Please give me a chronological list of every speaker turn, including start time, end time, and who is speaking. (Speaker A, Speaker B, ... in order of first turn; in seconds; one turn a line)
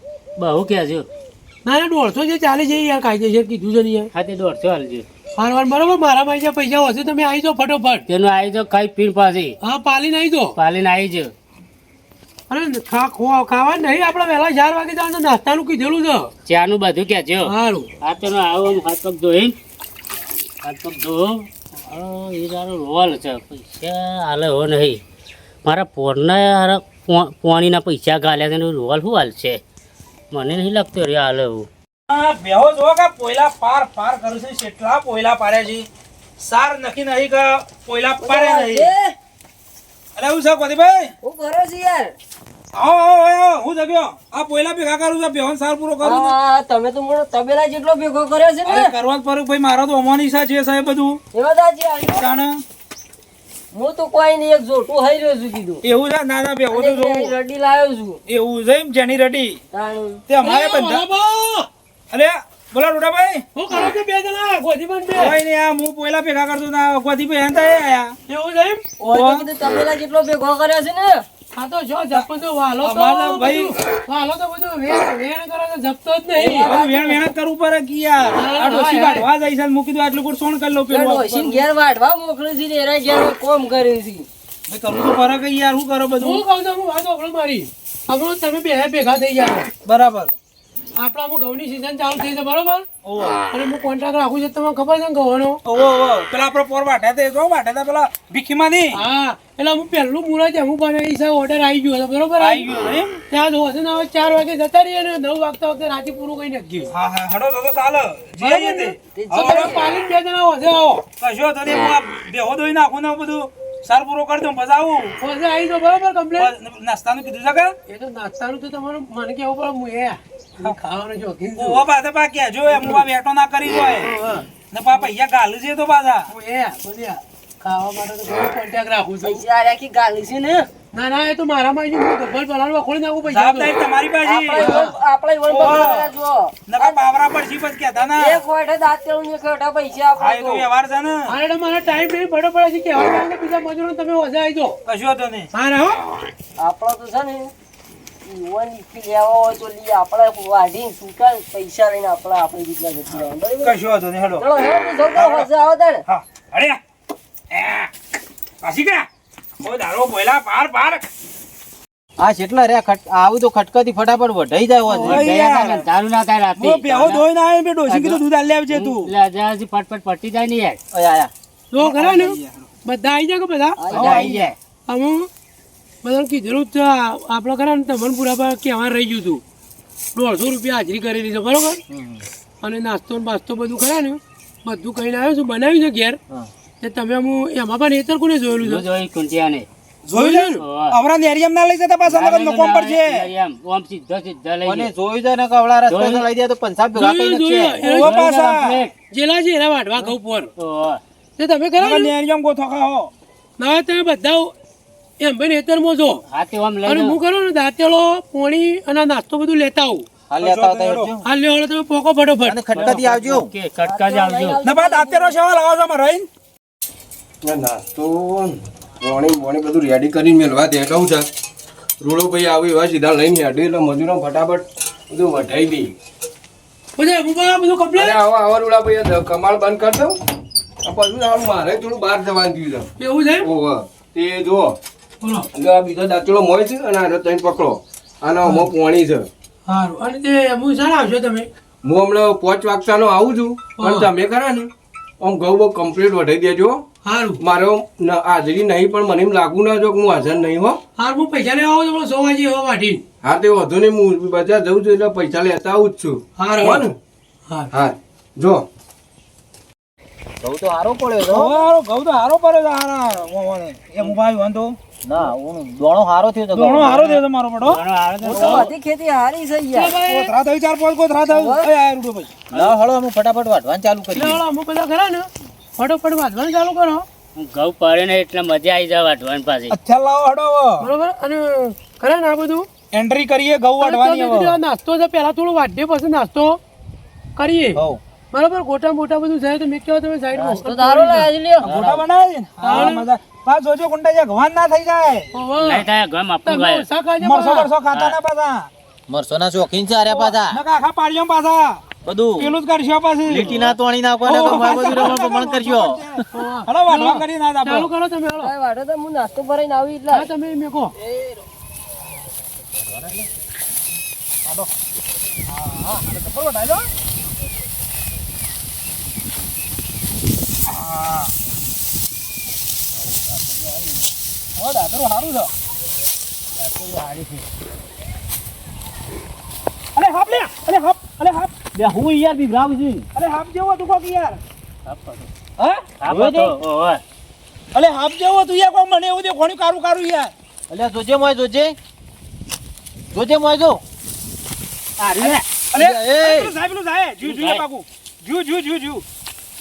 Speaker A: 0.4-1.1
Speaker B: 1.6-4.1
Speaker A: 4.1-5.0
Speaker B: 5.4-8.0
Speaker A: 8.1-9.6
Speaker B: 9.6-10.5
Speaker A: 10.6-11.3
Speaker B: 12.5-16.3
Speaker A: 16.4-19.6
Speaker B: 17.4-17.9
Speaker A: 20.6-25.0
Speaker A: 25.6-29.6
Speaker A: 30.3-31.7
Speaker C: 32.1-35.9
Speaker C: 36.4-38.9
Speaker D: 38.2-39.1
Speaker C: 40.2-41.1
Speaker D: 41.2-42.1
Speaker C: 42.7-46.4
Speaker D: 46.0-48.9
Speaker C: 48.6-51.2
Speaker D: 51.3-52.3
Speaker C: 52.1-52.6
Speaker D: 53.7-55.8
Speaker C: 55.8-57.3
Speaker D: 56.7-58.2
Speaker C: 58.3-59.6
Speaker D: 59.7-60.2
Speaker C: 60.3-61.0
Speaker B: 60.4-61.7
Speaker C: 62.1-63.4
Speaker B: 63.5-65.4
Speaker C: 65.1-68.1
Speaker B: 68.3-68.8
Speaker D: 69.0-71.2
Speaker C: 69.0-69.5
Speaker B: 71.5-77.2
Speaker C: 72.8-73.7
Speaker C: 76.3-81.7
Speaker B: 78.3-79.3
Speaker D: 80.9-84.2
Speaker C: 84.7-86.4
Speaker B: 86.2-89.7
Speaker C: 89.8-90.3
Speaker B: 91.0-92.8
Speaker C: 93.0-93.4
Speaker B: 93.5-95.6
Speaker C: 95.6-99.0
Speaker B: 98.9-102.7
Speaker C: 102.4-103.2
Speaker B: 103.3-106.9
Speaker C: 106.9-109.8
Speaker B: 108.4-111.0
Speaker D: 109.1-109.8
Speaker C: 111.2-115.1
Speaker B: 115.2-116.5
Speaker C: 116.4-117.7
Speaker B: 117.9-121.8
Speaker C: 121.6-124.1
Speaker B: 122.7-123.0
Speaker B: 124.0-125.0
Speaker C: 124.7-126.2
Speaker B: 126.3-129.4
Speaker D: 129.2-130.7
Speaker B: 130.9-133.7
Speaker C: 133.3-134.9
Speaker D: 134.2-137.0
Speaker B: 134.6-134.9
Speaker C: 135.5-136.1
Speaker C: 136.7-138.4
Speaker D: 138.2-140.7
Speaker C: 140.1-141.3
Speaker B: 141.3-144.8
Speaker C: 144.8-145.5
Speaker B: 145.5-146.0
Speaker D: 146.6-147.5
Speaker D: 148.2-153.7
Speaker C: 153.6-154.4
Speaker D: 154.4-156.0
Speaker C: 155.1-155.5
Speaker C: 156.1-156.8
Speaker C: 157.5-157.9
Speaker C: 158.6-159.1
Speaker C: 159.6-161.1
Speaker E: 162.2-165.2
Speaker A: 164.9-167.2
Speaker C: 165.0-165.8
Speaker C: 166.6-169.1
Speaker A: 167.9-170.8
Speaker E: 170.9-171.3
Speaker B: 171.7-174.0
Speaker C: 171.8-172.6
Speaker D: 173.8-174.5
Speaker A: 173.9-174.5
Speaker C: 173.9-174.4
Speaker B: 174.9-175.3
Speaker B: 176.0-179.4
Speaker B: 180.1-181.8
Speaker E: 181.9-182.2
Speaker B: 182.6-186.2
Speaker B: 186.8-188.8
Speaker A: 188.6-189.7
Speaker C: 190.1-193.3
Speaker B: 190.1-190.6
Speaker A: 190.6-191.0
Speaker A: 192.1-194.9
Speaker E: 194.6-197.9
Speaker A: 195.8-196.3
Speaker B: 196.9-198.1
Speaker C: 197.8-198.8
Speaker A: 197.8-198.9
Speaker B: 199.1-200.5
Speaker A: 200.6-201.0
Speaker B: 201.4-202.1
Speaker C: 201.8-203.1
Speaker B: 203.6-204.5
Speaker B: 205.2-206.2
Speaker A: 206.3-207.2
Speaker B: 206.8-210.1
Speaker E: 210.3-211.2
Speaker C: 210.4-211.1
Speaker B: 211.2-212.6
Speaker E: 212.4-213.5
Speaker A: 212.7-214.6
Speaker D: 213.8-215.3
Speaker C: 214.6-216.3
Speaker F: 217.4-221.3
Speaker F: 222.0-225.9
Speaker B: 226.9-228.2
Speaker F: 227.9-230.2
Speaker F: 230.8-232.9
Speaker B: 233.0-233.5
Speaker F: 233.4-234.8
Speaker B: 235.2-235.5
Speaker F: 235.5-239.3
Speaker B: 239.7-241.5
Speaker F: 241.8-246.8
Speaker B: 243.8-244.1
Speaker B: 247.0-247.4
Speaker F: 247.4-250.8
Speaker B: 251.0-253.0
Speaker F: 253.2-256.9
Speaker B: 256.4-256.9
Speaker F: 257.7-258.7
Speaker E: 260.4-261.6
Speaker C: 261.2-264.8
Speaker E: 265.0-267.2
Speaker C: 266.5-268.6
Speaker A: 267.6-268.7
Speaker D: 268.3-269.9
Speaker B: 269.7-270.3
Speaker C: 270.0-272.3
Speaker D: 271.3-271.7
Speaker E: 272.5-274.4
Speaker B: 274.1-277.1
Speaker A: 277.4-279.7
Speaker C: 279.7-280.9
Speaker B: 280.8-282.7
Speaker C: 282.9-284.6
Speaker B: 283.8-286.6
Speaker B: 287.4-291.3
Speaker D: 290.3-292.0
Speaker C: 291.6-295.3
Speaker B: 292.6-293.1
Speaker B: 295.3-295.9
Speaker A: 295.6-296.8
Speaker B: 296.4-297.7
Speaker C: 297.2-298.7
Speaker E: 299.1-300.6
Speaker C: 300.1-301.8
Speaker E: 302.0-302.6
Speaker C: 302.4-303.5
Speaker E: 303.3-306.1
Speaker A: 303.4-303.8
Speaker C: 304.2-307.9
Speaker B: 306.3-308.5
Speaker D: 308.4-310.3
Speaker B: 310.1-310.9
Speaker C: 315.5-316.9
Speaker C: 320.7-321.3
Speaker C: 324.6-325.5
Speaker C: 326.7-327.4
Speaker C: 329.9-331.7
Speaker E: 331.7-333.1
Speaker C: 333.1-334.4
Speaker A: 334.9-335.3
Speaker A: 336.0-337.0
Speaker E: 336.1-336.6
Speaker C: 337.7-340.3
Speaker E: 340.7-341.8
Speaker E: 343.1-343.8
Speaker A: 345.0-345.4
Speaker C: 345.2-349.0
Speaker E: 345.7-346.6
Speaker A: 347.2-347.6